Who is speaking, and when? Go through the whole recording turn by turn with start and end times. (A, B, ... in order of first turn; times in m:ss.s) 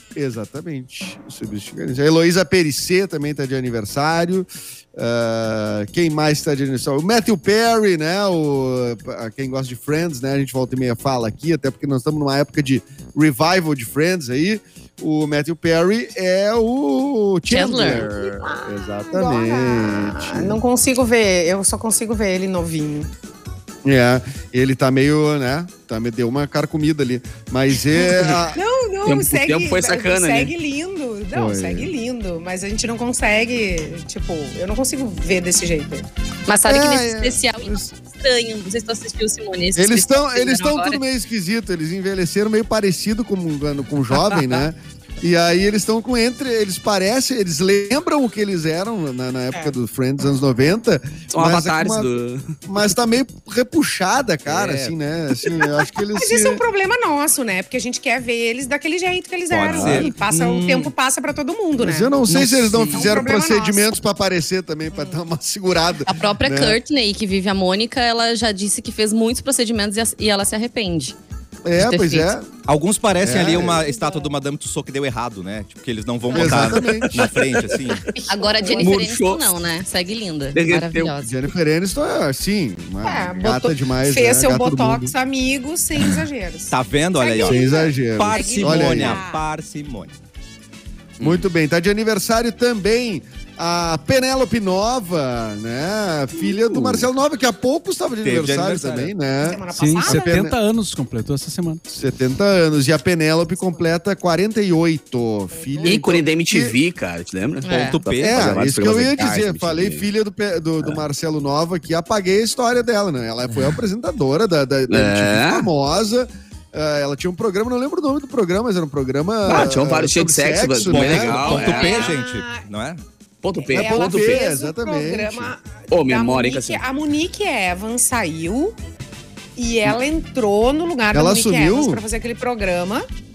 0:00.2-0:20.6 A
0:17.5-0:18.1 B
0:17.8-0:23.1 C
0:23.8-0:28.6 A
0:28.5-0:36.1 C
0:29.0-0:30.5 D
0:31.3-0:31.9 A
0:36.5-0:41.0 B
0:36.6-0:37.9 A
0:39.7-0:52.1 A
0:44.2-0:44.6 D
0:51.3-0:52.6 D
0:52.6-0:56.6 A
0:54.5-0:54.8 D
0:56.2-1:02.2 C
0:59.5-1:00.9 E
0:59.6-1:00.1 D
1:01.8-1:06.8 A
1:02.3-1:03.2 E
1:02.9-1:03.9 C
1:04.9-1:05.2 C
1:06.0-1:11.2 B
1:11.6-1:12.5 A
1:11.8-1:12.3 B
1:12.7-1:18.1 E
1:13.2-1:13.9 A
1:13.8-1:14.3 C
1:16.3-1:17.3 A
1:16.9-1:18.0 D
1:18.1-1:19.0 C
1:18.3-1:21.3 B
1:18.7-1:19.5 D
1:20.5-1:21.1 D
1:21.2-1:25.1 A
1:23.0-1:29.4 C
1:26.7-1:30.1 E
1:27.4-1:29.2 A
1:31.2-1:40.6 A
1:36.7-1:37.0 D
1:38.2-1:39.1 E
1:39.4-1:40.4 C
1:39.7-1:41.8 F
1:41.9-1:46.8 A
1:43.5-1:43.9 C
1:45.5-1:46.2 C
1:45.8-1:50.1 D
1:47.6-1:48.0 B
1:47.8-1:48.7 E
1:48.2-2:01.7 A
1:54.9-1:55.7 D
1:59.4-2:02.1 D
2:00.8-2:03.0 E
2:01.4-2:02.7 C
2:03.4-2:04.4 D
2:03.6-2:08.8 C
2:03.7-2:05.5 A
2:05.9-2:06.8 D
2:09.6-2:13.1 C
2:11.1-2:12.0 A